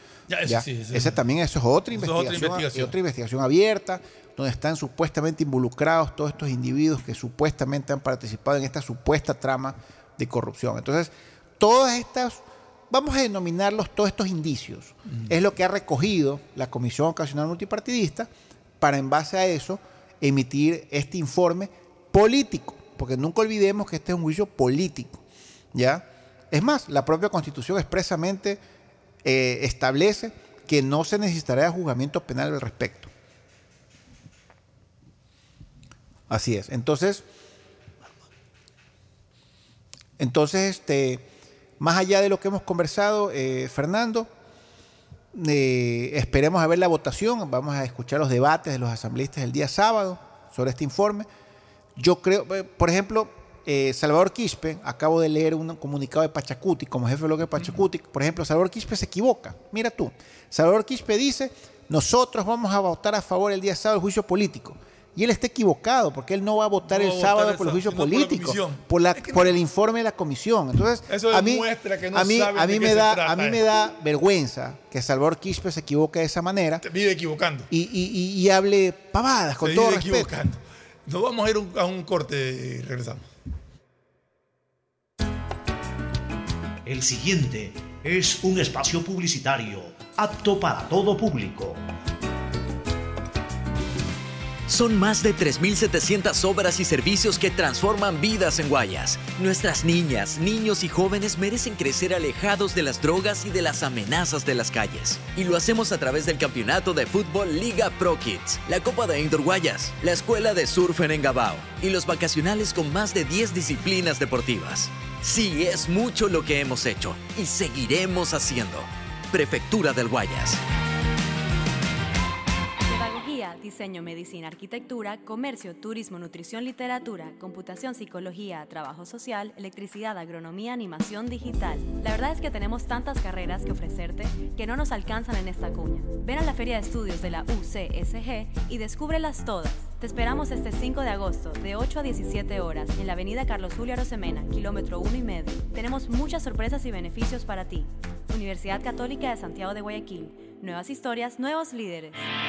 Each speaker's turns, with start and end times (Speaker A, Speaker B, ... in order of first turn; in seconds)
Speaker A: 0.3-1.2, 1.9-2.9, 66.8-69.5, 71.1-73.6, 76.8-77.7, 79.6-83.3
Speaker B: 0.4-25.2, 25.7-28.6, 29.2-33.1, 36.3-37.2, 40.2-41.2, 41.8-44.3, 45.3-51.3, 52.0-76.8, 77.7-80.3
Speaker C: 86.8-91.8
Speaker D: 94.7-120.6
Speaker E: 122.8-152.2